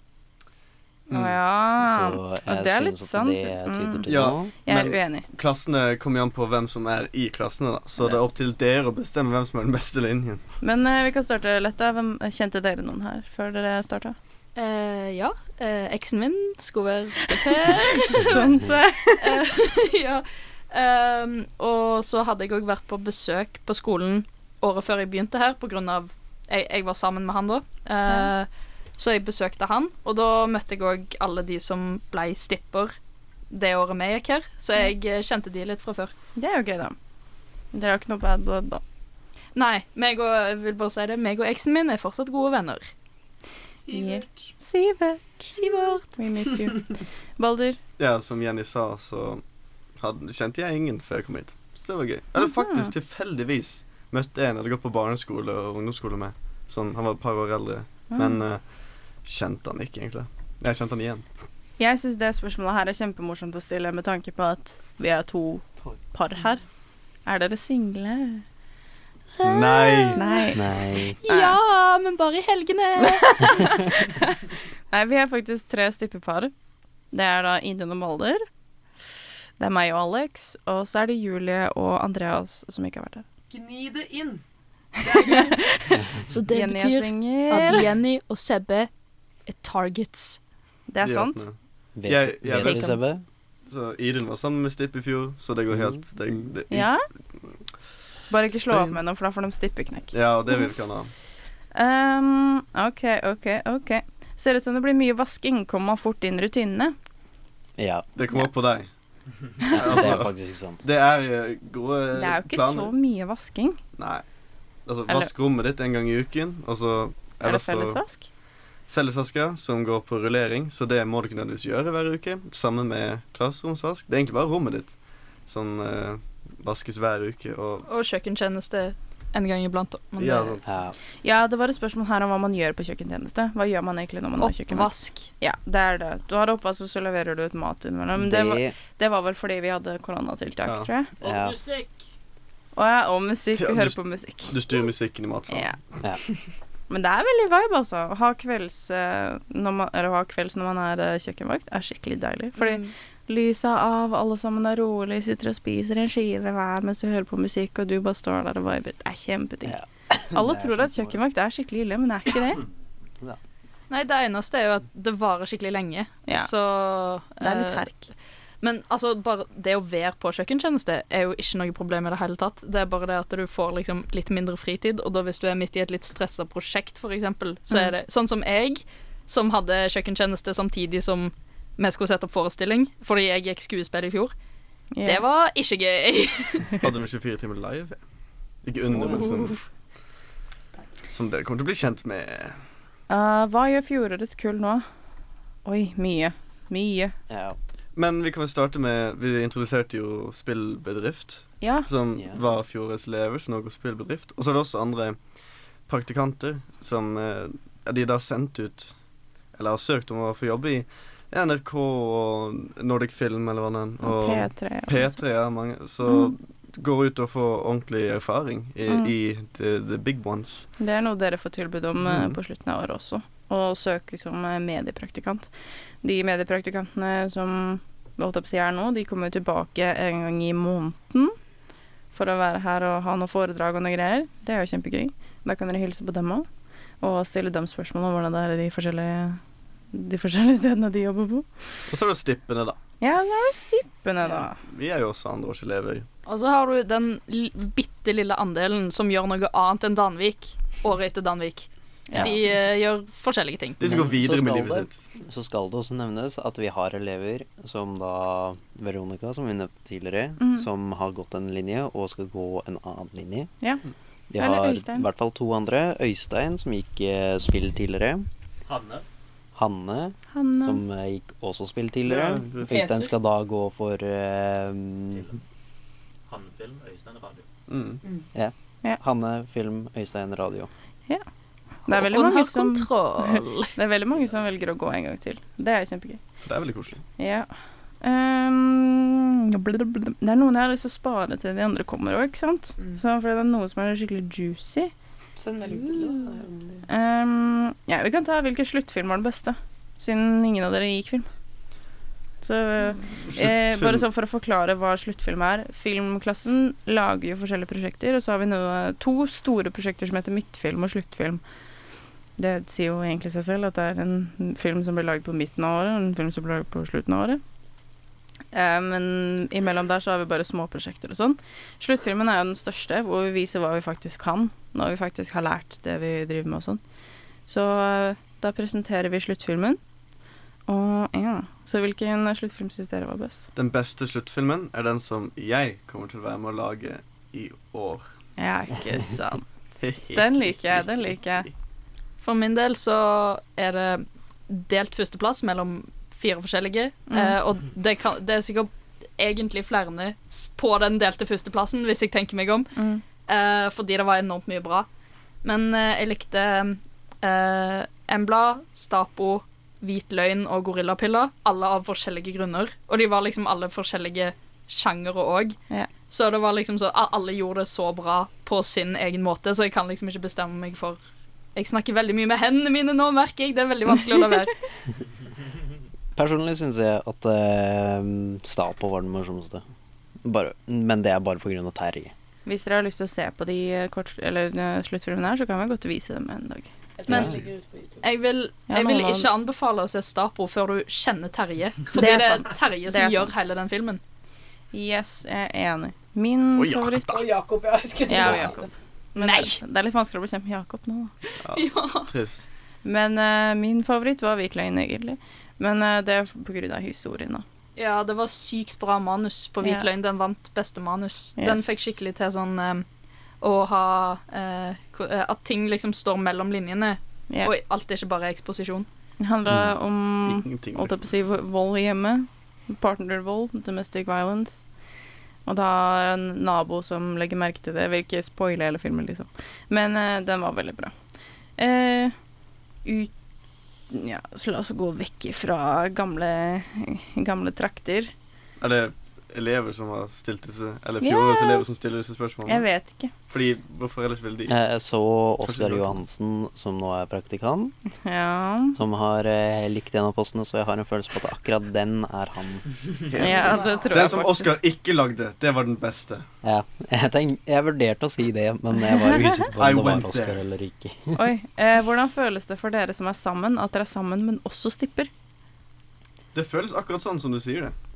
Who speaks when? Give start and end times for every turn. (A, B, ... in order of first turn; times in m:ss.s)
0:01.1-0:05.3 A
0:01.1-0:01.4 B
0:01.8-0:04.5 C
0:04.1-0:10.4 B
0:10.6-0:14.2 A
0:14.6-0:18.5 D
0:18.2-0:19.5 A
0:19.2-0:33.0 D
0:33.5-0:36.1 D
0:36.4-0:37.0 A
0:37.7-0:38.8 A
0:39.6-0:42.9 D
0:43.8-0:44.5 E
0:43.9-0:47.8 A
0:45.5-0:46.1 D
0:48.0-0:49.4 B
0:50.0-0:58.6 B
0:52.4-0:52.9 A
0:58.1-0:58.4 A
0:59.2-1:01.2 B
1:01.8-1:06.6 A
1:07.3-1:08.4 A
1:09.4-1:13.8 D
1:09.4-1:10.2 B
1:10.2-1:10.6 A
1:10.5-1:11.2 C
1:11.3-1:11.6 A
1:13.0-1:14.4 A
1:14.9-1:16.5 A
1:17.1-1:18.4 A
1:19.6-1:23.2 A
1:23.5-1:24.4 E
1:25.0-1:26.0 E
1:25.2-1:25.6 A
1:26.2-1:28.9 D
1:26.5-1:27.9 A
1:29.5-1:30.4 D
1:30.9-1:31.4 A
1:31.0-1:31.5 B
1:32.0-1:33.2 C
1:32.1-1:33.0 B
1:32.5-1:33.0 A
1:33.7-1:36.9 B
1:36.7-1:37.0 A
1:38.3-1:40.8 A
1:38.7-1:39.0 B
1:40.1-1:41.1 B
1:41.8-1:47.0 A
1:47.8-1:48.1 C
1:48.2-1:48.9 B
1:49.6-1:52.9 B
1:49.7-1:50.8 C
1:52.1-1:53.8 A
1:54.0-1:54.2 B
1:54.9-1:58.0 B
1:57.4-1:58.2 A
1:58.9-2:07.9 B
2:07.9-2:10.6 D
2:10.2-2:10.7 B
2:10.6-2:11.0 C
2:11.2-2:21.1 A
2:14.4-2:15.3 D
2:18.2-2:18.8 C
2:21.2-2:21.6 C
2:21.2-2:22.0 F
2:22.8-2:24.8 A
2:23.6-2:25.8 B
2:25.5-2:25.8 A
2:26.9-2:39.8 A
2:32.6-2:32.9 D
2:39.6-2:41.2 C
2:40.3-2:42.6 A
2:43.9-2:47.9 D
2:47.4-2:48.1 A
2:48.6-3:04.3 D
3:05.0-3:05.2 A
3:05.0-3:06.8 D
3:06.8-3:08.0 B
3:08.6-3:09.6 B
3:09.0-3:09.2 C
3:11.1-3:12.6 B
3:13.1-3:14.8 A
3:15.6-3:17.1 A
3:17.3-3:17.6 C
3:18.0-3:25.2 B
3:21.6-3:21.9 A
3:25.9-3:28.9 B
3:29.6-3:40.7 B
3:34.0-3:35.2 A
3:36.0-3:36.3 A
3:38.9-3:39.1 A
3:40.8-3:45.5 A
3:42.1-3:42.3 B
3:46.0-3:51.4 A
3:52.1-3:56.5 A
3:57.0-3:59.4 A
3:59.9-4:01.5 A
4:01.9-4:02.8 B
4:03.0-4:04.6 A
4:04.6-4:06.1 B
4:06.3-4:13.9 D
4:12.1-4:12.3 A
4:13.8-4:15.0 B
4:13.8-4:23.5 C
4:20.4-4:20.7 A
4:24.3-4:28.3 C
4:24.4-4:25.1 A
4:28.7-4:29.0 F
4:29.5-4:35.3 C
4:30.3-4:30.8 A
4:32.1-4:32.8 B
4:32.7-4:33.1 E
4:35.1-4:35.4 F
4:36.3-4:37.4 F
4:37.7-4:38.0 B
4:38.3-4:40.7 C
4:41.9-4:43.7 D
4:41.9-4:46.2 A
4:46.5-4:47.0 B
4:47.2-4:47.5 A
4:48.0-4:54.9 A
4:55.4-4:56.8 E
4:56.9-5:01.3 A
5:02.4-5:11.4 A
5:03.3-5:04.1 B
5:12.4-5:17.4 A
5:18.5-5:26.8 A
5:27.5-5:29.8 A
5:30.7-5:33.5 A
5:33.6-5:38.0 B
5:38.4-5:39.5 A
5:39.8-5:40.5 B
5:40.1-5:41.5 A
5:42.2-5:52.7 D
5:47.1-5:47.4 A
5:52.8-5:53.0 A
5:53.3-5:54.9 D
5:55.4-6:11.0 D
6:11.6-6:14.6 D
6:16.2-6:19.6 C
6:20.2-6:22.1 C
6:22.5-6:26.7 A
6:27.0-6:28.0 E
6:27.1-6:27.4 D
6:27.1-6:27.4 C
6:28.0-6:34.0 D
6:28.7-6:29.3 A
6:31.9-6:33.5 A
6:34.7-6:37.1 A
6:36.6-6:37.2 B
6:37.1-6:38.7 E
6:38.1-6:41.1 A
6:39.2-6:39.6 D
6:41.4-6:42.4 B
6:41.5-6:42.1 D
6:42.8-6:47.4 A
6:47.8-6:52.8 D
6:51.4-6:51.8 A
6:53.4-6:58.9 D
6:59.2-7:04.6 A
7:00.3-7:01.1 B
7:05.5-7:10.9 A
7:11.6-7:12.2 A
7:12.8-7:13.1 A
7:13.9-7:18.1 A
7:18.6-7:22.7 B
7:21.0-7:21.7 A
7:22.5-7:23.1 A
7:23.3-7:24.6 B
7:24.5-7:27.8 C
7:25.4-7:26.0 B
7:28.0-7:28.8 A
7:28.8-7:32.7 C
7:33.1-7:36.2 B
7:33.2-7:34.6 A
7:33.3-7:33.8 E
7:36.4-7:41.2 C
7:39.6-7:40.4 B
7:41.2-7:45.1 A
7:46.4-7:47.8 B